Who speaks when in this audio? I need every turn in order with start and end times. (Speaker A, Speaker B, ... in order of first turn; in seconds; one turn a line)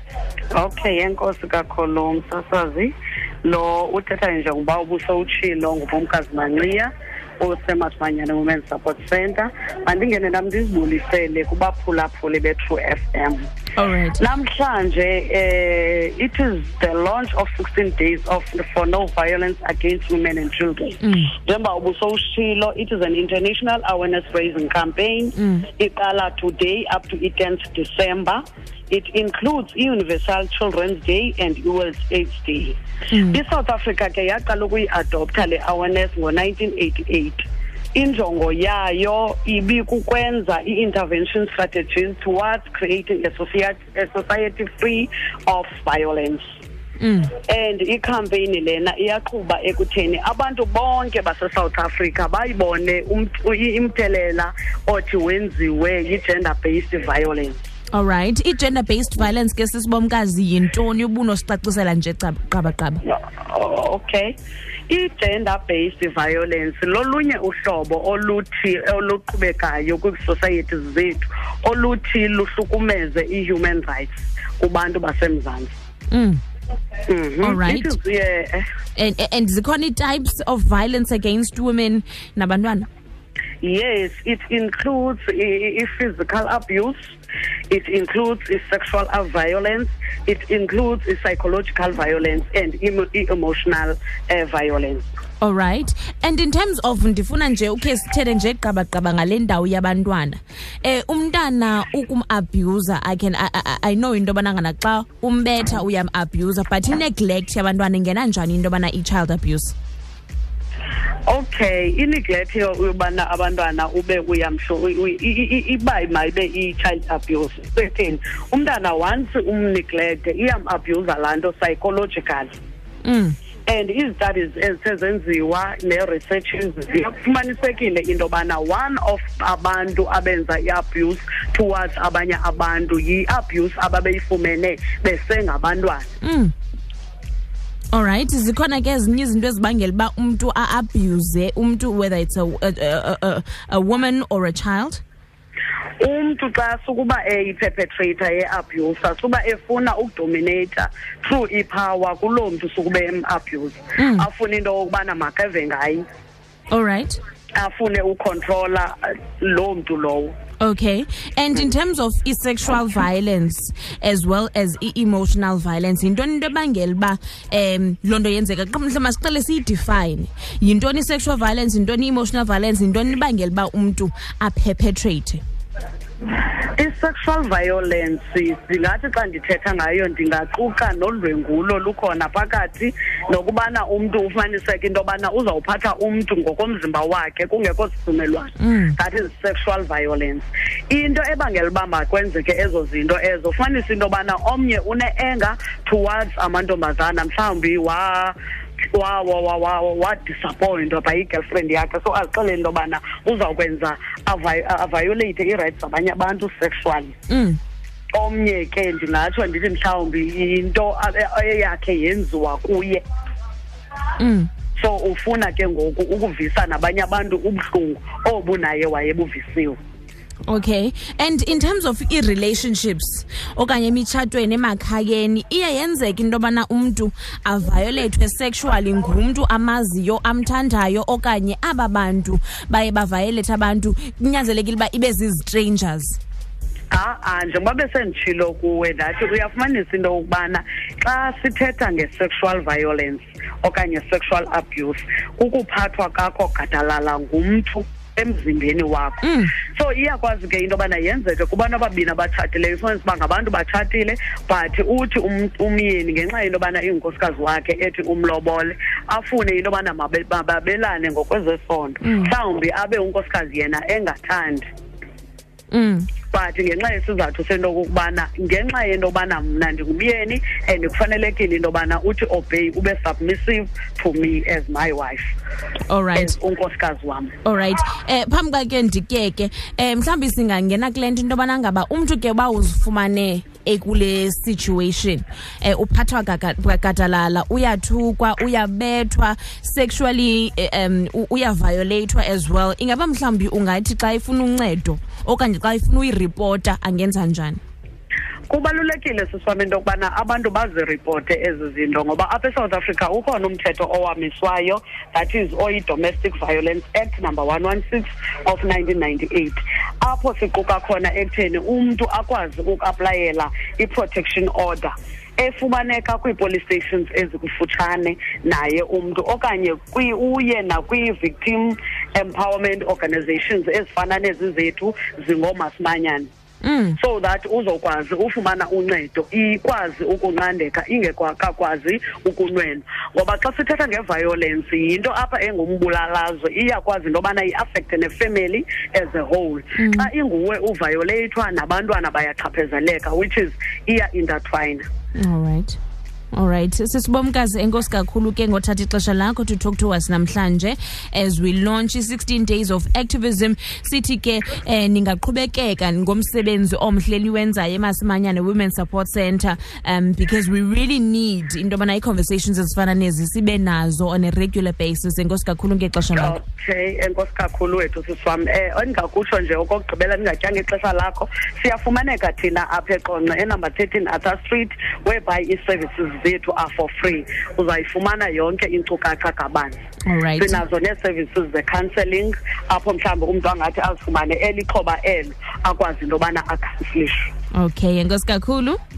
Speaker A: 0.6-13.5
Speaker B: 13.8-14.2
Speaker A: 14.2-32.8
Speaker B: 21.0-21.3
Speaker B: 25.4-25.7
Speaker B: 33.1-33.4
Speaker A: 33.3-37.4
Speaker A: 37.9-46.4
Speaker B: 47.0-47.4
Speaker A: 47.5-57.6
Speaker B: 57.9-63.0
Speaker A: 63.0-64.3
Speaker A: 64.9-75.7
Speaker B: 76.1-76.4
Speaker A: 77.1-78.6
Speaker B: 77.4-78.0
Speaker B: 79.0-82.9
Speaker A: 83.6-87.0
Speaker A: 87.7-95.1
Speaker B: 95.4-109.8
Speaker A: 111.3-122.5
Speaker B: 123.0-123.3
Speaker A: 123.7-136.1
Speaker B: 136.2-136.5
Speaker B: 137.9-145.0
Speaker A: 146.0-156.0
Speaker B: 154.0-154.3
Speaker B: 156.7-157.2
Speaker A: 157.6-160.4
Speaker B: 160.6-175.4
Speaker A: 176.8-198.3
Speaker B: 188.6-189.0
Speaker A: 198.9-207.2
Speaker B: 207.3-207.6
Speaker A: 208.2-213.0
Speaker B: 214.2-214.5
Speaker A: 214.8-219.8
Speaker B: 220.5-236.2
Speaker A: 236.9-264.7
Speaker B: 249.2-249.5
Speaker B: 262.0-262.3
Speaker B: 265.7-266.1
Speaker A: 266.3-275.3
Speaker B: 275.9-276.4
Speaker A: 276.1-277.4
Speaker B: 277.4-297.6
Speaker A: 298.5-326.3
Speaker B: 326.6-327.0
Speaker A: 327.0-344.9
Speaker B: 339.8-340.1
Speaker B: 345.2-345.8
Speaker B: 346.3-366.4
Speaker A: 366.2-379.8
Speaker B: 380.1-380.6
Speaker A: 380.4-387.3
Speaker B: 387.5-388.8